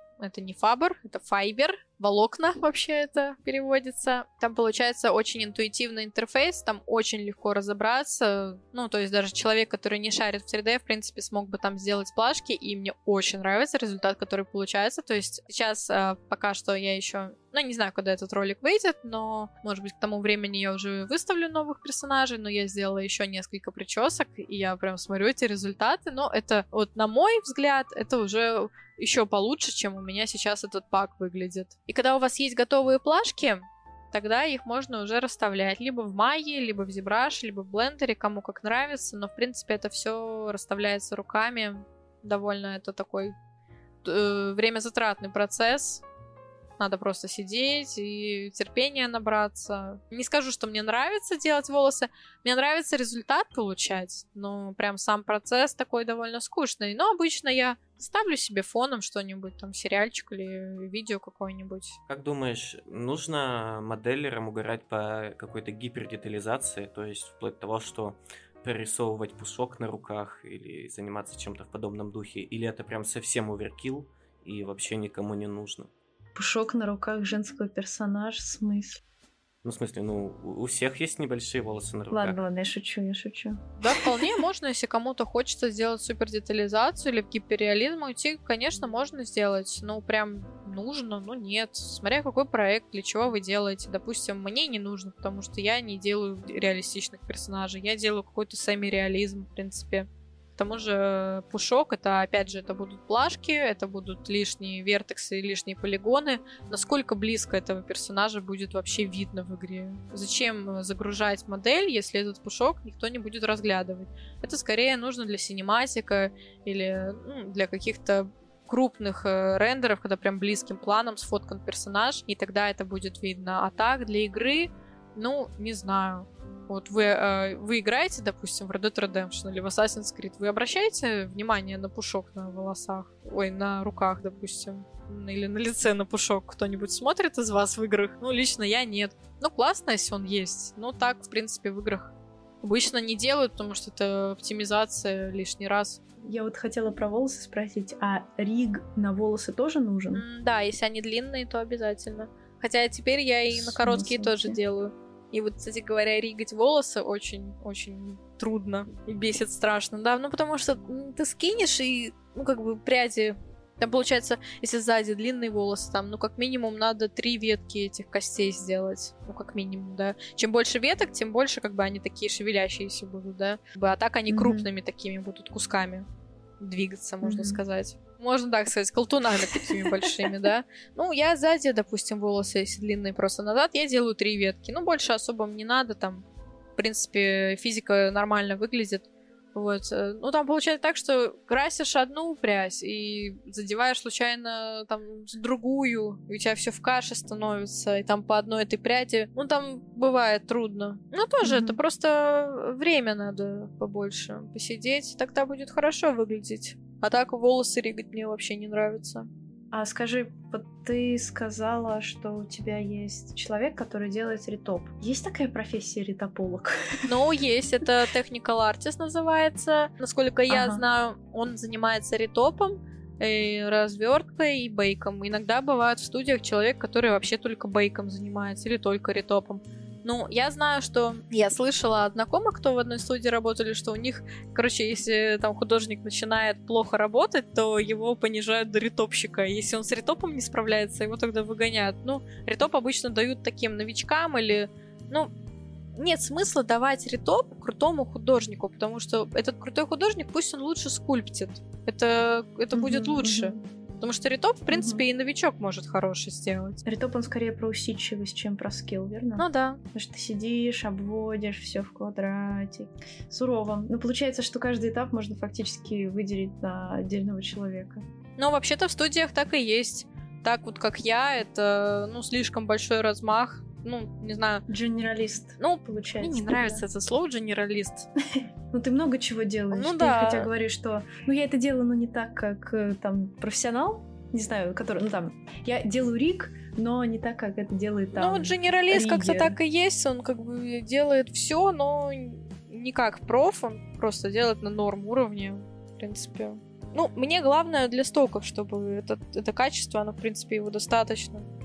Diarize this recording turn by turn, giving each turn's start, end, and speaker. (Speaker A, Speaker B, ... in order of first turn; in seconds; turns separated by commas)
Speaker A: 0.2-43.3, Speaker A: 44.0-46.0, Speaker A: 46.8-62.0, Speaker B: 62.1-75.9, Speaker C: 76.3-79.0, Speaker B: 79.6-82.4, Speaker C: 82.1-84.3, Speaker A: 83.8-146.0, Speaker C: 146.2-150.2, Speaker A: 150.1-176.1, Speaker C: 153.5-154.6, Speaker C: 174.3-174.7, Speaker A: 176.6-186.2, Speaker C: 177.2-177.6, Speaker C: 179.5-180.4, Speaker A: 186.8-209.3, Speaker C: 201.4-201.8, Speaker C: 209.7-217.2, Speaker A: 217.1-245.3, Speaker C: 220.5-220.8, Speaker A: 245.9-256.8, Speaker C: 252.7-253.6, Speaker C: 254.7-255.0, Speaker C: 256.8-268.1, Speaker A: 259.4-259.8, Speaker A: 268.4-274.6, Speaker C: 274.7-276.8, Speaker A: 275.6-278.1, Speaker C: 278.3-289.6, Speaker A: 279.7-280.5, Speaker A: 288.1-301.5